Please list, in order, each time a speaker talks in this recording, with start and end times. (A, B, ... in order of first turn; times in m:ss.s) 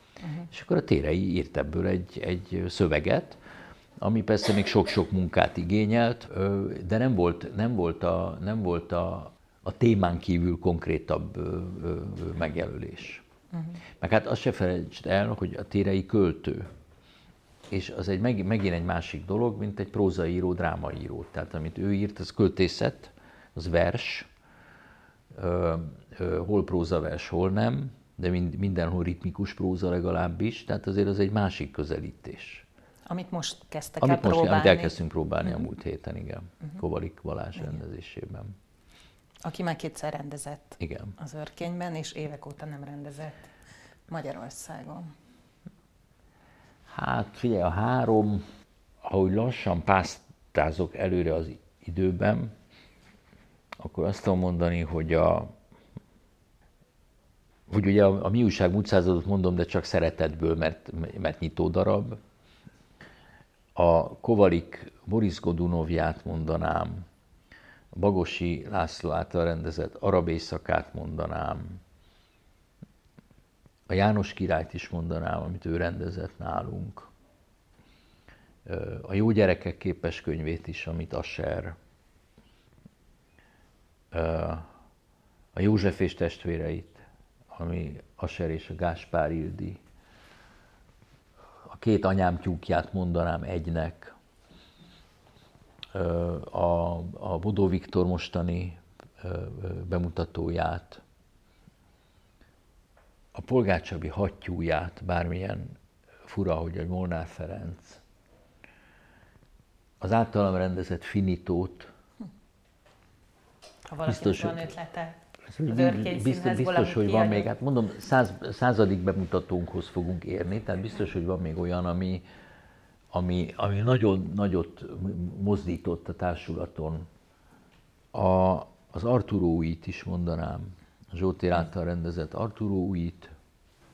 0:00.2-0:00.5 A
0:00.5-0:03.4 B
0:04.0-0:13.2 B
0:14.0-0:16.7 B
0:17.7-0:24.3 B
0:25.3-0:32.7 B
0:33.1-0:35.0 A
0:34.0-0:38.5 B
0:39.4-0:43.5 A
0:40.8-0:41.1 B
0:44.1-0:45.1 A
0:46.9-0:48.4 B
0:49.0-0:52.5 B
0:53.8-0:55.5 B
0:57.7-1:02.2 B
1:03.8-1:07.1 B
1:07.9-1:11.8 B
1:13.9-1:17.1 B
1:18.6-1:21.8 B
1:24.1-1:24.7 B
1:25.6-1:29.8 B
1:31.6-1:34.2 B
1:35.9-1:41.0 B
1:43.3-1:48.0 B
1:50.0-1:51.9 B
1:53.9-1:55.2 A
1:54.1-1:54.7 B
1:55.5-2:02.2 B
1:55.7-1:57.5 A
2:03.1-2:07.1 B
2:08.1-2:13.3 B